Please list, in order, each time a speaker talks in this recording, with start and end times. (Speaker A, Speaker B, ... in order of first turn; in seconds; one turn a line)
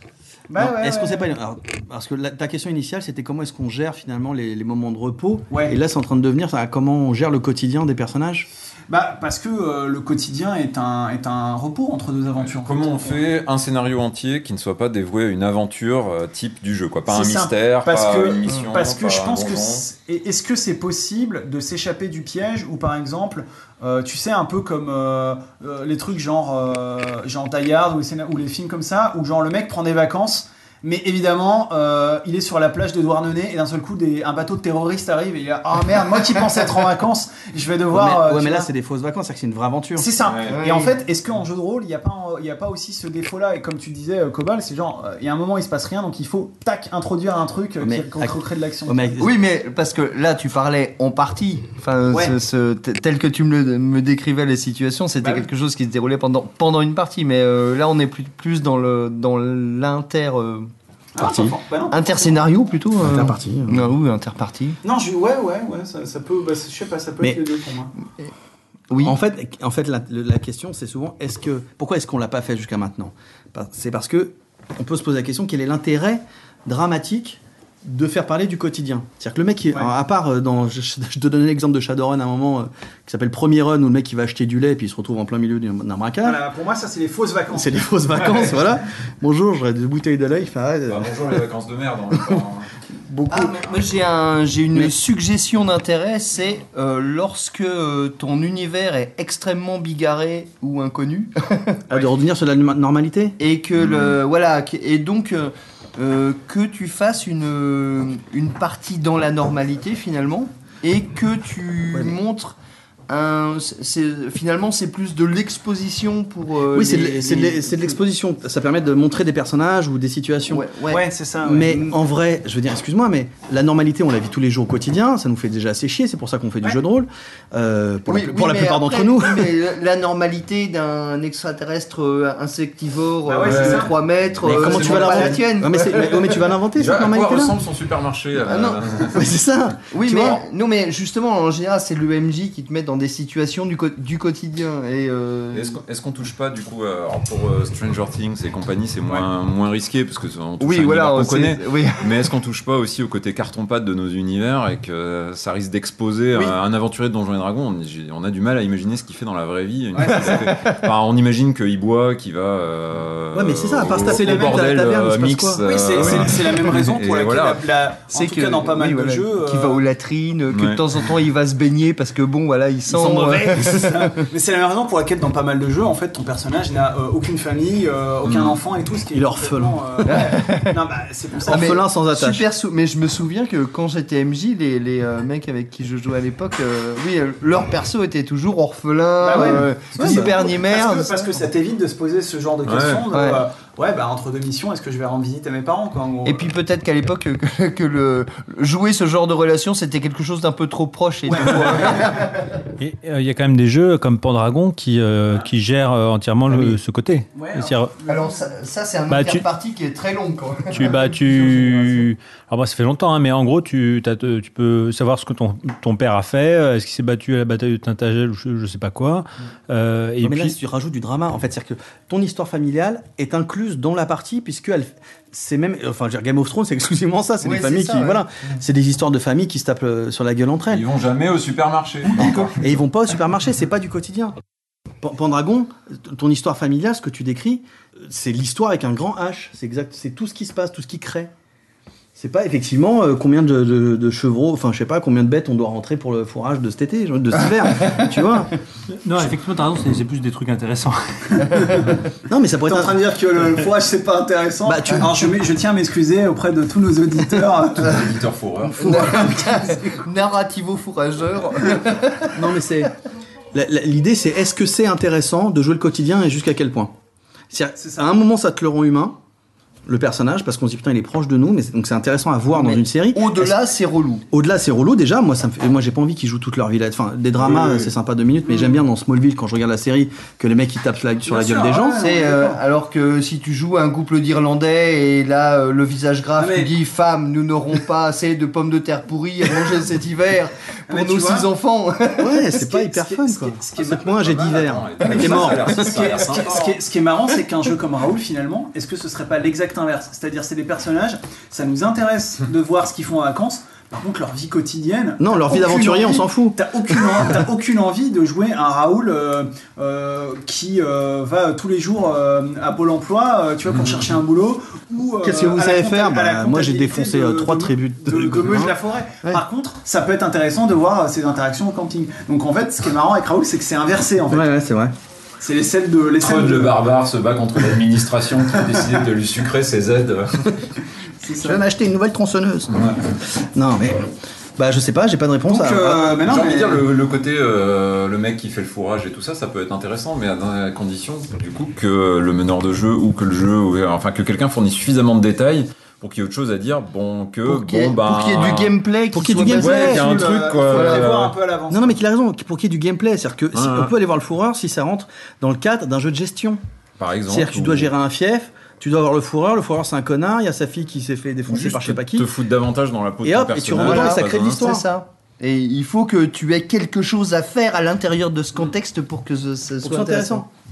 Speaker A: 0.5-1.3
Speaker B: 0.6-8.5
Speaker A: 5.5-5.8
Speaker A: 8.9-13.1
Speaker C: 12.4-19.8
Speaker A: 17.1-38.7
Speaker B: 37.9-40.1
Speaker A: 40.0-49.2
Speaker C: 40.2-40.6
Speaker D: 40.5-41.0
Speaker B: 47.8-49.4
Speaker D: 49.2-60.7
Speaker A: 55.2-55.5
Speaker A: 61.1-62.4
Speaker B: 61.2-61.5
Speaker D: 61.9-64.8
Speaker B: 63.0-63.9
Speaker A: 64.8-67.9
Speaker B: 69.0-86.4
Speaker A: 86.2-88.5
Speaker B: 87.5-91.1
Speaker C: 90.8-92.7
Speaker D: 93.1-101.8
Speaker B: 93.2-93.6
Speaker B: 101.9-103.4
Speaker D: 103.4-112.5
Speaker C: 103.7-104.2
Speaker B: 111.9-112.2
Speaker D: 113.1-117.9
Speaker B: 116.7-120.6
Speaker D: 120.5-121.1
Speaker A: 120.9-121.8
Speaker B: 121.4-129.6
Speaker D: 121.6-121.9
Speaker D: 128.1-136.5
Speaker A: 133.2-133.9
Speaker C: 133.4-135.0
Speaker B: 134.4-137.6
Speaker A: 134.8-135.4
Speaker C: 136.7-139.2
Speaker D: 138.4-139.3
Speaker B: 139.1-140.4
Speaker D: 139.9-145.8
Speaker C: 140.0-140.4
Speaker C: 145.5-167.6
Speaker D: 150.6-152.3
Speaker A: 159.9-160.5
Speaker D: 160.1-160.8
Speaker B: 163.3-166.2
Speaker A: 164.0-164.8
Speaker A: 165.6-169.8
Speaker D: 168.1-174.1
Speaker C: 170.5-171.1
Speaker B: 172.8-173.9
Speaker A: 173.6-181.8
Speaker C: 178.2-178.6
Speaker B: 179.1-179.8
Speaker D: 180.1-180.7
Speaker B: 181.5-182.4
Speaker D: 181.5-191.3
Speaker A: 189.2-196.5
Speaker B: 189.3-190.4
Speaker C: 192.7-193.1
Speaker D: 193.1-193.4
Speaker D: 196.2-202.6
Speaker A: 201.3-202.2
Speaker E: 202.8-207.9
Speaker A: 207.3-208.4
Speaker D: 208.0-211.8
Speaker E: 209.1-209.4
Speaker E: 210.7-220.5
Speaker B: 220.2-230.8
Speaker D: 227.4-228.2
Speaker C: 230.7-232.6
Speaker B: 232.2-234.3
Speaker B: 235.0-241.3
Speaker B: 242.2-248.6
Speaker D: 247.8-248.1
Speaker E: 249.0-251.9
Speaker A: 251.4-251.9
Speaker B: 252.2-252.9
Speaker A: 252.7-258.1
Speaker B: 254.6-255.2
Speaker C: 257.8-259.4
Speaker D: 258.7-262.5
Speaker A: 258.8-260.0
Speaker B: 262.3-262.9
Speaker B: 263.5-266.9
Speaker B: 267.5-269.1
Speaker B: 269.9-273.6
Speaker D: 272.5-274.2
Speaker B: 274.3-282.0
Speaker C: 277.4-277.9
Speaker A: 281.2-282.6
Speaker D: 281.9-292.4
Speaker C: 286.4-286.7
Speaker A: 290.9-291.5
Speaker B: 292.2-296.1
Speaker A: 292.5-324.5
Speaker C: 294.1-296.8
Speaker B: 305.2-307.3
Speaker B: 315.2-319.4
Speaker B: 324.3-324.9
Speaker A: 325.4-326.8
Speaker C: 326.2-330.7
Speaker A: 331.2-331.6
Speaker B: 331.3-332.8
Speaker C: 332.7-333.0
Speaker B: 333.3-336.1
Speaker A: 335.5-336.8
Speaker C: 336.2-348.8
Speaker D: 347.4-351.1
Speaker B: 349.1-350.1
Speaker C: 349.3-351.3
Speaker A: 349.6-352.0
Speaker B: 351.7-356.6
Speaker C: 353.5-353.9
Speaker C: 357.0-357.9
Speaker B: 357.3-362.3
Speaker C: 361.5-364.8
Speaker B: 363.2-364.9
Speaker D: 363.7-370.4
Speaker B: 369.8-370.5